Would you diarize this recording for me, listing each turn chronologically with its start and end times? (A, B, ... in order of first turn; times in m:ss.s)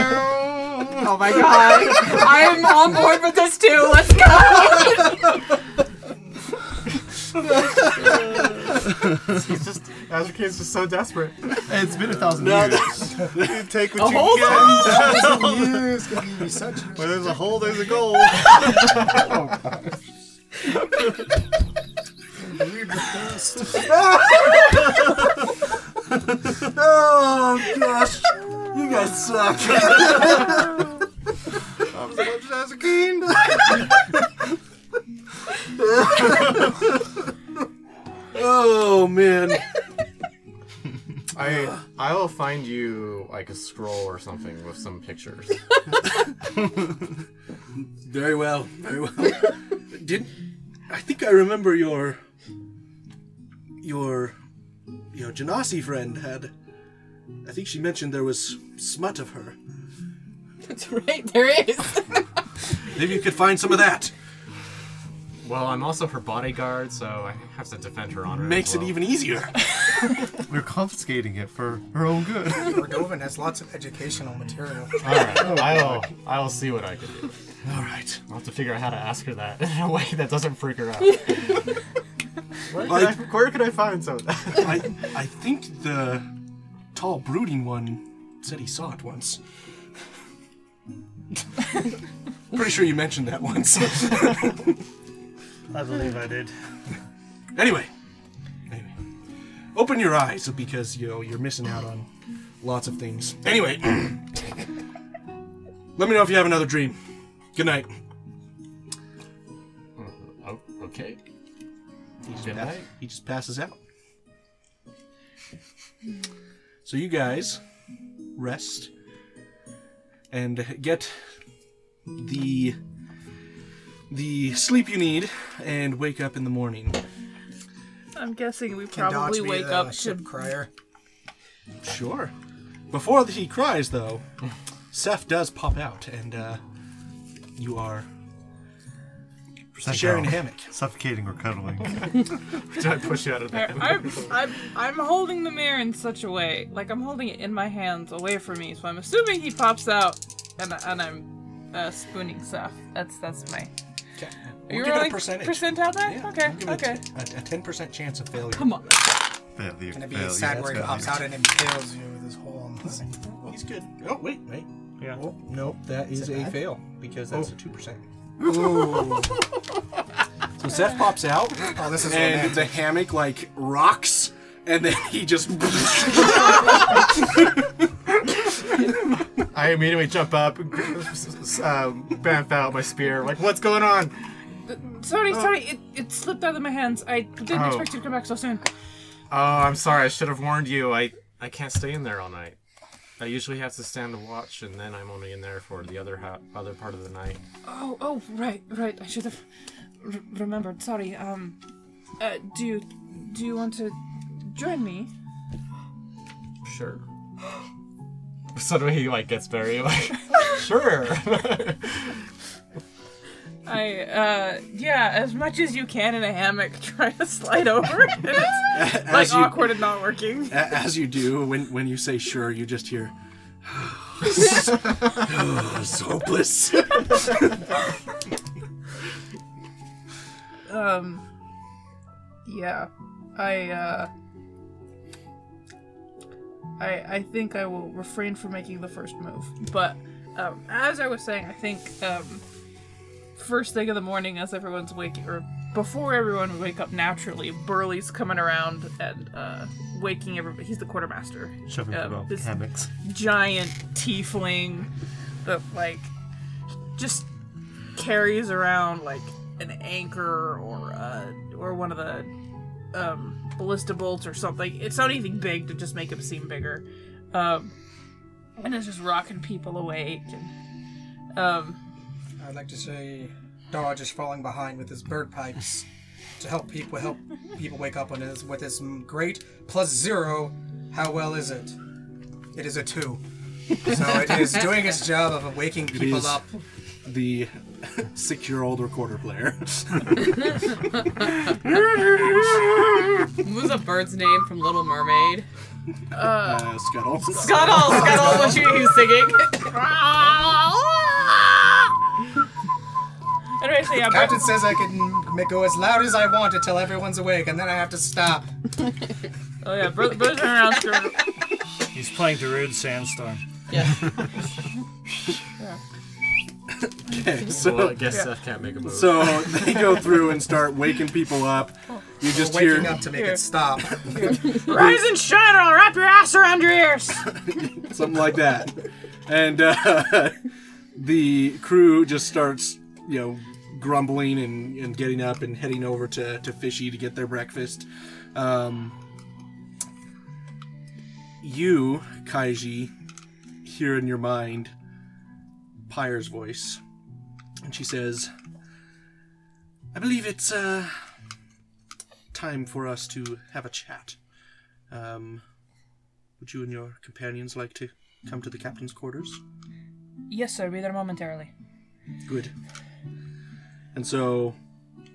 0:01.0-0:01.9 A
0:01.1-0:05.2 B
0:09.2-0:11.7 A
0:11.6-0:15.5 C
0:12.4-0:13.7 D
0:14.0-0:14.6 B
0:14.4-0:17.3 E
0:16.9-0:18.7 C
0:22.3-0:23.8 E
0:23.9-0:24.7 D
0:26.6-0:30.8 D
0:31.9-0:33.6 C
0:36.0-0:36.6 D
0:38.3-0:39.7 D
0:41.3-0:45.6 A
0:41.4-0:41.7 D
0:47.7-0:50.3 D
0:50.9-0:52.2 D
0:53.8-0:54.4 D
0:55.1-0:56.5 D
0:57.4-0:59.6 D
1:00.6-1:02.2 B
1:02.9-1:04.1 D
1:05.4-1:09.0 A
1:08.3-1:09.8 D
1:10.5-1:12.9 C
1:12.6-1:15.6 E
1:15.0-1:17.4 A
1:17.6-1:18.2 D
1:18.3-1:21.7 A
1:22.7-1:24.8 A
1:22.8-1:23.2 D
1:24.6-1:26.3 D
1:26.9-1:29.4 D
1:32.5-1:34.8 D
1:35.7-1:36.9 F
1:37.5-1:37.9 D
1:38.7-1:39.0 D
1:39.7-1:44.5 D
1:46.0-1:48.0 D
1:50.0-1:51.2 A
1:52.2-1:53.8 D
1:52.4-1:52.8 A
1:56.8-1:57.6 D
1:58.3-1:58.9 D
2:00.3-2:01.4 D
2:02.1-2:02.8 D
2:04.1-2:07.0 D
2:08.1-2:10.4 G
2:08.9-2:10.7 E
2:11.8-2:12.3 D
2:12.9-2:14.3 D
2:14.9-2:16.6 D
2:17.6-2:18.1 D
2:19.8-2:22.2 C
2:19.8-2:20.7 D
2:22.7-2:24.3 A
2:23.5-2:33.7 G
2:34.2-2:38.7 D
2:34.7-2:37.0 G
2:38.5-2:39.2 B
2:39.5-2:41.3 C
2:39.9-2:43.3 E
2:40.5-2:40.8 D
2:43.4-2:48.0 D
2:45.0-2:45.2 F
2:46.2-2:46.6 E
2:48.4-2:49.4 E
2:50.6-2:57.2 D
2:51.7-2:52.8 E
2:59.4-3:04.4 A
3:04.6-3:08.7 G
3:07.5-3:08.0 A
3:09.3-3:12.6 A
3:13.2-3:17.4 A
3:17.6-3:21.6 G
3:22.2-3:25.1 G
3:26.6-3:27.0 A
3:28.5-3:32.3 A
3:33.6-3:40.6 G
3:38.7-3:39.8 D
3:40.5-3:47.6 D
3:50.7-3:51.2 G
3:52.4-3:54.1 G
3:56.8-4:02.4 G
4:03.3-4:14.9 G
4:11.7-4:12.9 C
4:15.4-4:16.1 G
4:16.9-4:17.3 G
4:17.9-4:22.3 G
4:22.9-4:27.7 G
4:28.6-4:30.5 G
4:31.3-4:31.8 G
4:32.4-4:35.8 E
4:36.4-4:41.8 E
4:42.5-4:43.2 E
4:43.8-4:46.6 E
4:45.9-4:46.5 D
4:47.0-4:50.7 D
4:51.7-4:52.4 D
4:53.4-4:55.4 B
4:56.1-4:56.8 G
4:56.2-4:58.6 D
4:57.3-4:59.8 B
4:57.3-4:58.9 G
4:59.7-5:01.6 G
5:03.6-5:04.7 G
5:04.0-5:08.5 E
5:09.6-5:11.3 G
5:11.9-5:13.4 F
5:13.7-5:14.3 B
5:16.8-5:18.2 D
5:17.5-5:19.9 A
5:18.8-5:23.1 D
5:22.2-5:24.1 E
5:23.1-5:27.4 G
5:24.7-5:25.0 D
5:27.5-5:39.0 D
5:41.4-5:42.9 D
5:43.6-5:44.7 D
5:45.9-5:46.8 D
5:47.6-5:48.3 D
5:49.9-5:51.2 D
5:52.3-5:54.2 D
5:54.9-5:55.4 D
5:56.4-5:59.4 D
6:00.3-6:01.5 G
6:02.2-6:02.5 D
6:03.9-6:04.6 D